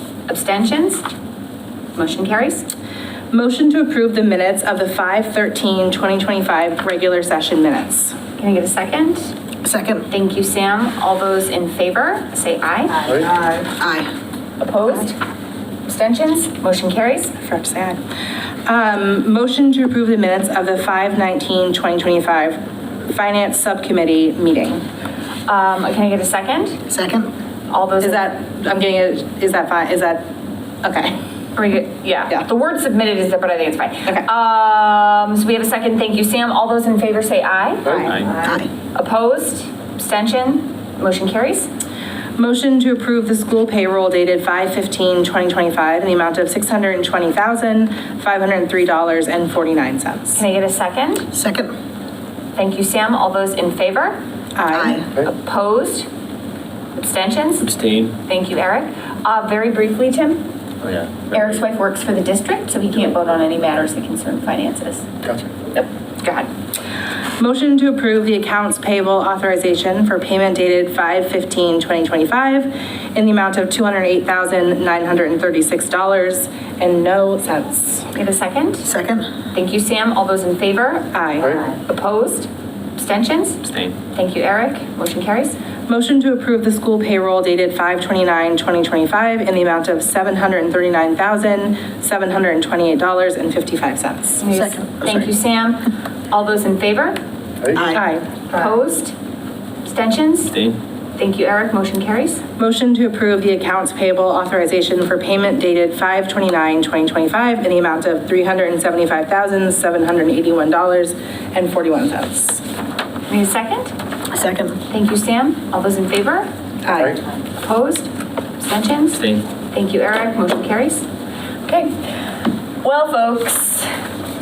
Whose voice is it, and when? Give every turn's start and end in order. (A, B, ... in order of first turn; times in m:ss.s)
0:00.3-0:01.0 A
0:02.0-0:02.7 A
0:03.3-0:08.2 B
0:08.4-0:09.3 A
0:09.6-0:10.0 C
0:10.1-0:13.1 A
0:13.8-0:14.1 C
0:14.6-0:15.2 A
0:15.9-0:17.3 A
0:17.4-0:18.0 B
0:18.7-0:24.8 B
0:25.5-0:26.8 A
0:26.9-0:27.3 C
0:27.7-0:28.3 A
0:28.0-0:30.2 B
0:30.8-0:31.1 B
0:31.6-0:38.1 A
0:37.9-0:38.6 B
0:38.1-0:38.4 D
0:39.0-0:41.7 A
0:42.4-0:50.4 B
0:50.4-0:51.3 A
0:51.3-0:51.7 C
0:52.6-0:54.2 A
0:54.6-0:55.0 B
0:54.7-0:55.1 C
0:55.2-0:56.1 A
0:57.0-0:57.7 A
0:57.6-0:58.2 D
0:58.2-1:00.4 A
1:00.8-1:01.6 D
1:01.3-1:05.1 A
1:05.7-1:06.5 A
1:07.4-1:18.1 B
1:18.1-1:18.9 A
1:18.8-1:19.2 C
1:19.5-1:23.6 A
1:21.1-1:21.6 B
1:23.6-1:24.0 D
1:24.1-1:25.6 A
1:25.9-1:34.4 B
1:34.4-1:37.2 A
1:34.5-1:35.3 C
1:37.8-1:38.0 C
1:37.9-1:38.3 B
1:38.5-1:39.1 A
1:39.8-1:40.5 A
1:40.5-1:40.8 D
1:41.2-1:42.4 A
1:42.6-1:52.6 B
1:53.3-1:53.9 A
1:54.3-1:54.8 C
1:54.9-1:56.5 A
1:56.9-1:57.2 B
1:57.6-1:59.2 A
1:59.1-1:59.4 D
1:59.7-2:01.0 A
2:01.7-2:01.9 A
2:02.8-2:03.9 A